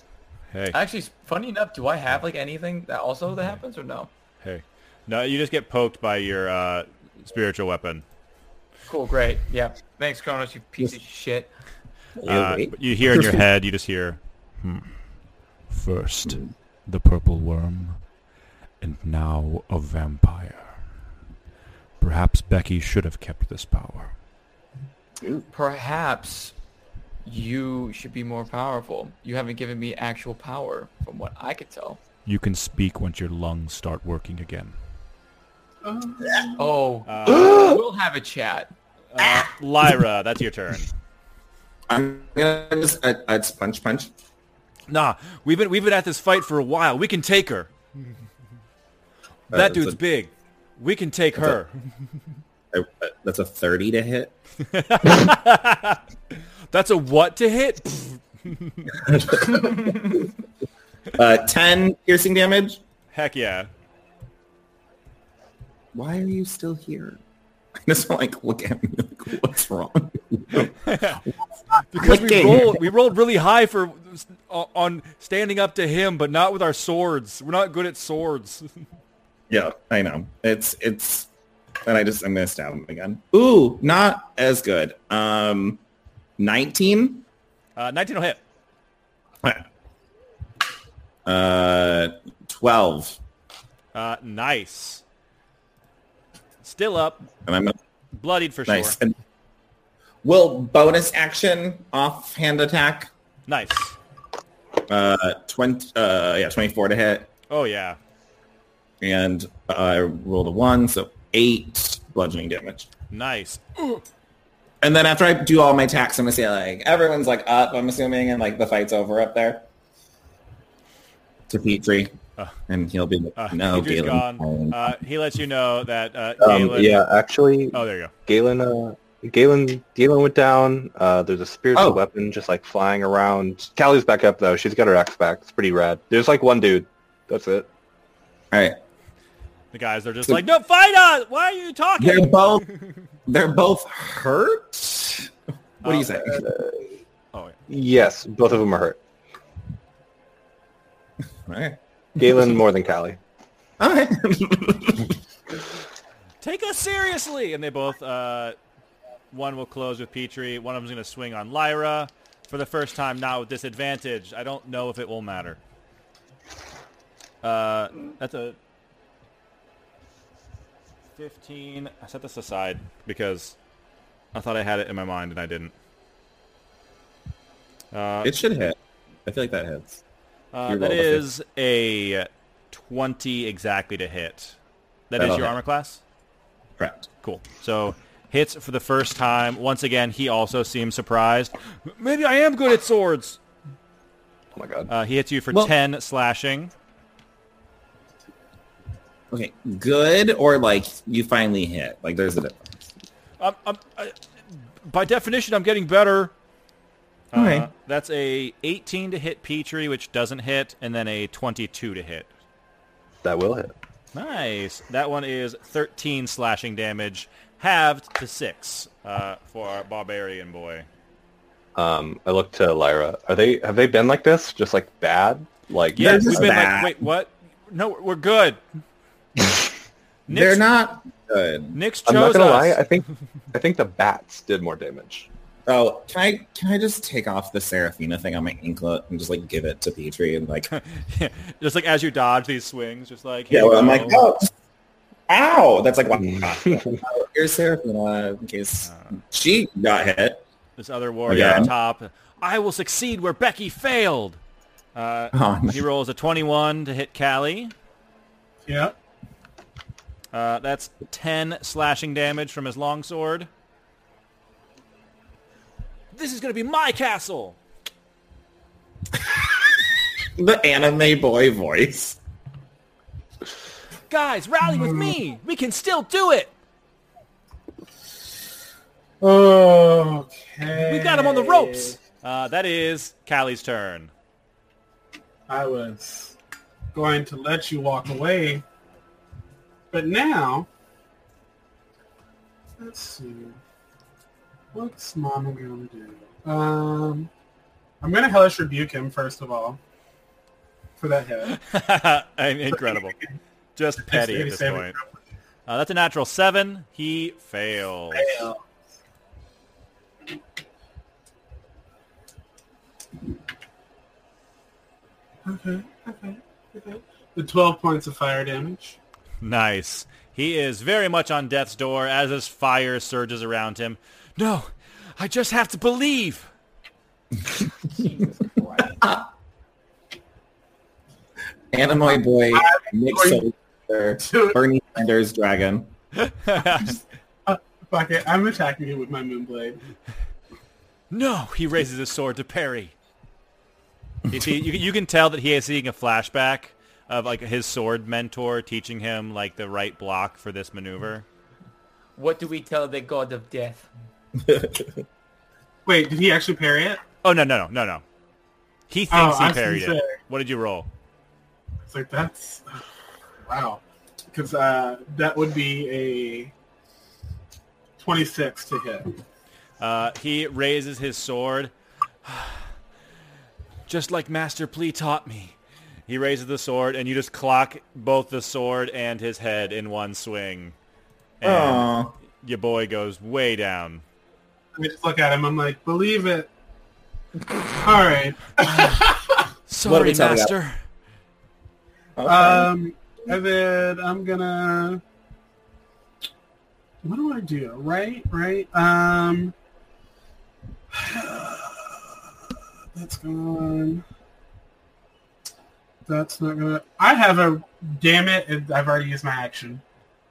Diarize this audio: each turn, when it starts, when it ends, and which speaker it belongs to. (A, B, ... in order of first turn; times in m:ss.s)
0:00.5-0:00.8 A
0:00.7-0:04.1 B
0:04.4-0:08.0 A
0:08.9-0:11.5 B
0:12.2-0:13.4 C
0:12.3-0:15.2 A
0:15.7-0:18.0 A
0:18.8-0:20.9 A
0:22.0-0:24.2 A
0:25.5-0:26.5 B
0:27.2-0:32.0 B
0:32.3-0:34.8 A
0:35.8-0:36.6 D
0:36.6-0:38.7 B
0:37.1-0:37.7 A
0:39.1-0:40.9 A
0:41.9-0:44.1 C
0:44.9-0:47.7 A
0:49.5-0:50.0 C
0:49.5-0:51.7 A
0:52.7-0:54.3 C
0:54.6-0:56.0 A
0:56.7-0:58.9 A
0:59.0-1:00.2 C
1:01.1-1:02.8 C
1:03.1-1:03.7 A
1:05.9-1:07.2 C
1:07.8-1:10.7 C
1:10.9-1:11.2 A
1:11.9-1:18.7 A
1:12.0-1:12.8 C
1:19.5-1:21.3 C
1:21.8-1:25.8 C
1:26.4-1:27.2 C
1:27.8-1:28.4 A
1:31.3-1:33.2 C
1:33.9-1:35.0 A
1:36.6-1:37.3 A
1:37.4-1:37.8 C
1:38.1-1:39.0 A
1:38.7-1:39.2 C
1:40.2-1:43.1 C
1:43.5-1:44.0 A
1:44.9-1:47.3 C
1:47.5-1:48.0 A
1:49.0-1:52.9 C
1:53.1-1:54.0 A
1:54.8-1:59.7 C
2:01.5-2:02.2 C
2:02.7-2:04.9 C
2:03.4-2:07.0 A
2:06.4-2:17.7 E
2:07.7-2:08.1 A
2:11.7-2:12.0 C
2:18.5-2:18.8 C
2:19.7-2:22.9 A
2:22.0-2:22.6 C
2:23.3-2:25.3 C
2:25.8-2:26.4 A
2:25.8-2:26.4 C
2:26.4-2:26.9 E
2:27.7-2:29.0 E
2:31.4-2:32.4 C
2:32.2-2:33.2 E
2:33.8-2:35.2 C
2:36.4-2:38.6 A
2:39.3-2:45.6 A
2:47.4-2:48.6 A
2:51.2-2:53.6 A
2:54.3-2:55.7 A
2:57.9-2:58.4 A
2:58.2-3:00.0 C
3:00.5-3:04.6 A
3:00.7-3:01.2 C
3:05.1-3:06.0 A
3:05.2-3:05.6 C
3:06.8-3:07.1 C
3:07.2-3:13.4 A
3:14.6-3:14.9 E
3:14.9-3:16.7 A
3:19.3-3:22.7 C
3:23.4-3:24.1 A
3:24.8-3:26.3 A
3:27.3-3:32.3 A
3:27.3-3:27.7 C
3:33.2-3:33.7 E
3:34.1-3:40.9 A
3:41.8-3:46.6 E
3:45.9-3:48.6 A
3:46.0-3:47.0 C
3:50.3-3:50.6 A
3:50.3-3:51.8 C
3:51.7-3:52.9 A
3:52.0-3:55.3 E
3:55.7-4:00.7 C
4:00.7-4:04.2 A
4:03.5-4:04.5 C
4:05.3-4:10.4 C
4:08.9-4:09.2 A
4:10.8-4:14.4 A
4:11.3-4:11.7 C
4:14.9-4:17.7 A
4:15.3-4:15.8 C
4:18.7-4:18.9 D
4:20.3-4:23.5 A
4:26.1-4:27.6 A
4:30.4-4:32.2 C
4:34.1-4:36.5 A
4:34.8-4:35.2 D
4:39.2-4:42.0 D
4:40.8-4:44.1 A
4:45.5-4:46.4 D
4:46.9-4:48.6 D
4:49.9-4:50.7 D
4:52.8-4:53.6 D
4:54.7-4:57.3 D
4:58.0-4:59.8 D
5:01.0-5:01.6 D
5:01.5-5:03.2 A
5:02.7-5:03.3 D
5:03.8-5:05.0 A
5:04.0-5:05.1 D
5:05.7-5:08.5 A
5:08.1-5:08.6 D
5:15.4-5:19.0 D
5:19.4-5:26.5 A
5:27.9-5:29.0 B
5:29.0-5:29.3 C
5:31.7-5:35.9 C
5:32.5-5:33.4 D
5:34.2-5:34.6 D
5:36.3-5:36.9 A
5:37.4-5:39.8 D
5:41.1-5:42.9 A
5:44.3-5:51.2 A
5:52.2-5:53.9 B
5:54.4-5:54.9 C
5:55.9-5:57.0 D
5:57.2-5:58.0 A
5:58.9-6:00.9 A
5:59.1-6:00.1 D
6:01.9-6:02.8 D
6:03.4-6:06.5 D
6:08.0-6:09.2 D
6:09.8-6:11.7 A
6:12.2-6:12.7 A
6:13.9-6:15.6 A
6:16.1-6:20.8 A
6:21.4-6:21.9 A
6:21.4-6:22.2 C
6:22.4-6:24.0 A
6:24.8-6:26.5 D
6:27.7-6:29.1 D
6:28.6-6:29.0 A
6:29.7-6:30.8 A
6:29.8-6:30.5 C
6:32.2-6:32.7 C
6:32.2-6:35.0 D
6:37.0-6:39.5 D
6:40.9-6:42.2 D
6:42.9-6:44.0 D
6:46.1-6:49.8 D